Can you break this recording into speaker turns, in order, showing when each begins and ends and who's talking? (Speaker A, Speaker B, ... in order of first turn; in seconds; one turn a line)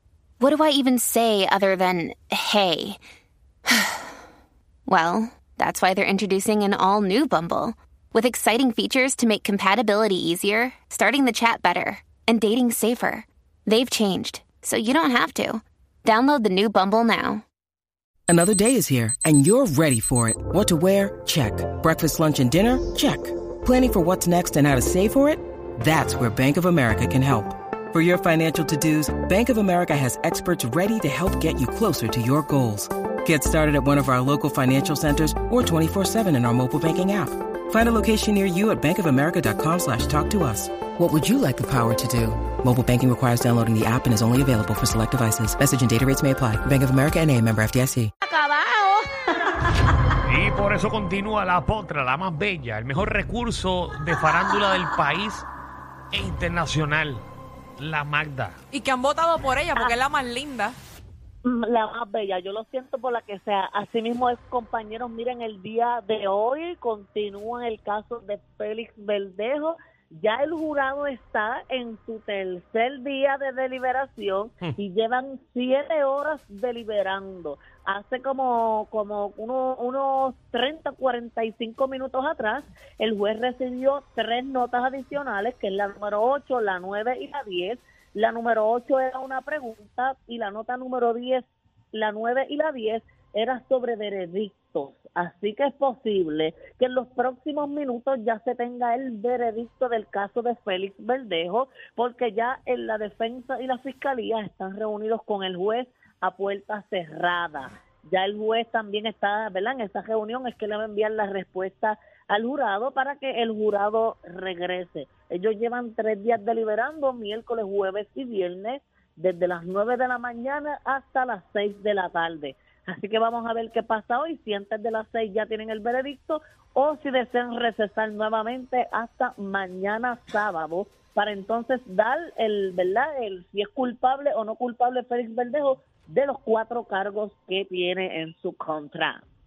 Speaker A: 0.4-3.0
Speaker A: 3.7-4.1
Speaker A: 4.9-17.4
Speaker B: 18.3-48.1
Speaker A: 48.2-49.0
Speaker C: 50.2-55.5
Speaker C: 56.1-57.2
Speaker C: 57.8-58.6
Speaker D: 58.7-60.8
Speaker E: 61.4-139.2